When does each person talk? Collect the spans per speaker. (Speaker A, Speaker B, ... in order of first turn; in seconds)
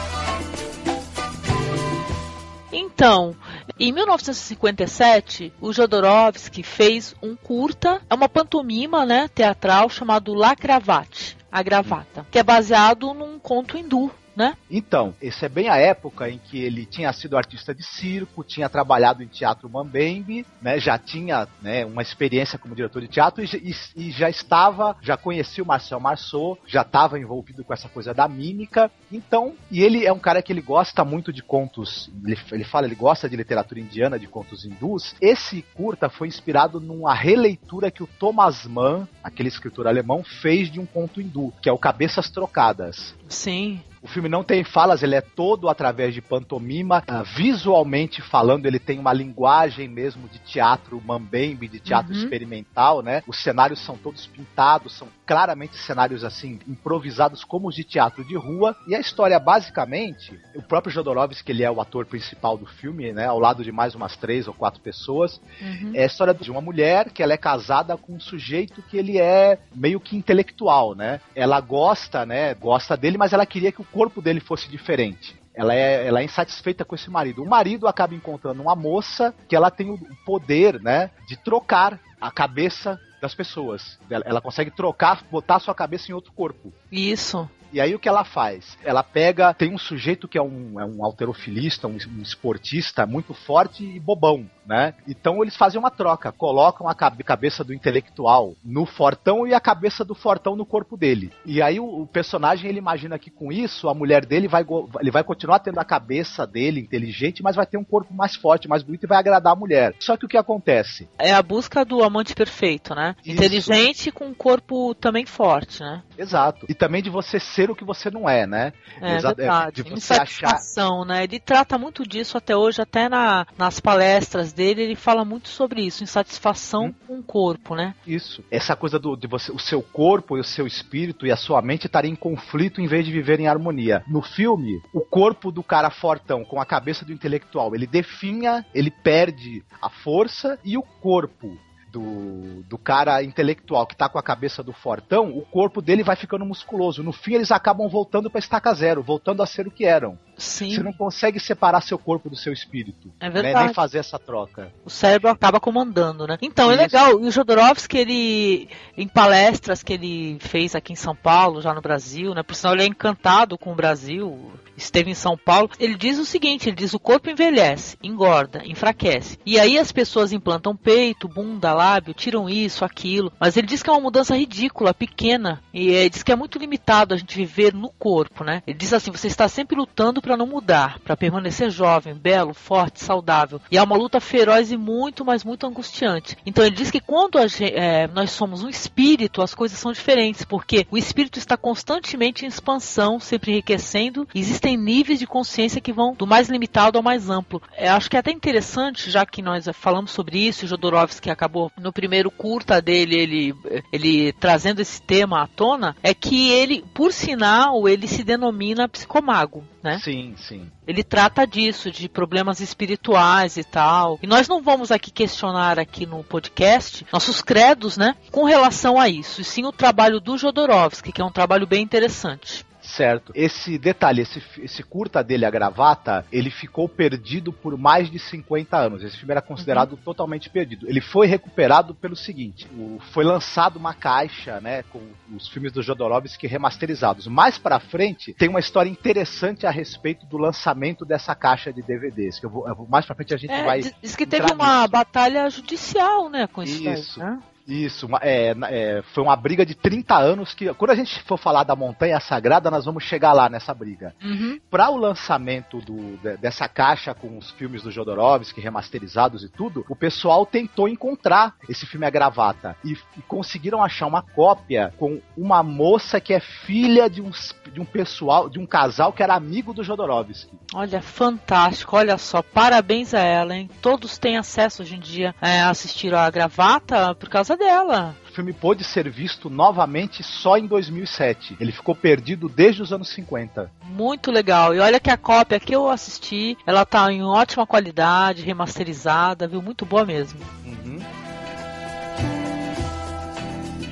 Speaker A: 2.7-14.6, 43.3-43.8, 51.9-52.3, 65.6-66.0, 86.9-87.5, 111.2-116.0, 119.0-128.0, 150.4-150.9, 153.2-153.8, 154.8-210.0, 210.9-222.6, 229.6-229.9, 243.5-247.4, 254.2-254.6, 270.7-278.2, 283.8-290.5
Speaker B: 14.7-43.1, 44.0-86.7, 87.7-111.1, 113.2-113.8, 116.2-120.6, 128.1-154.7, 156.6-157.0, 209.9-210.7, 222.8-245.0, 246.6-270.6, 278.3-283.7, 290.6-291.1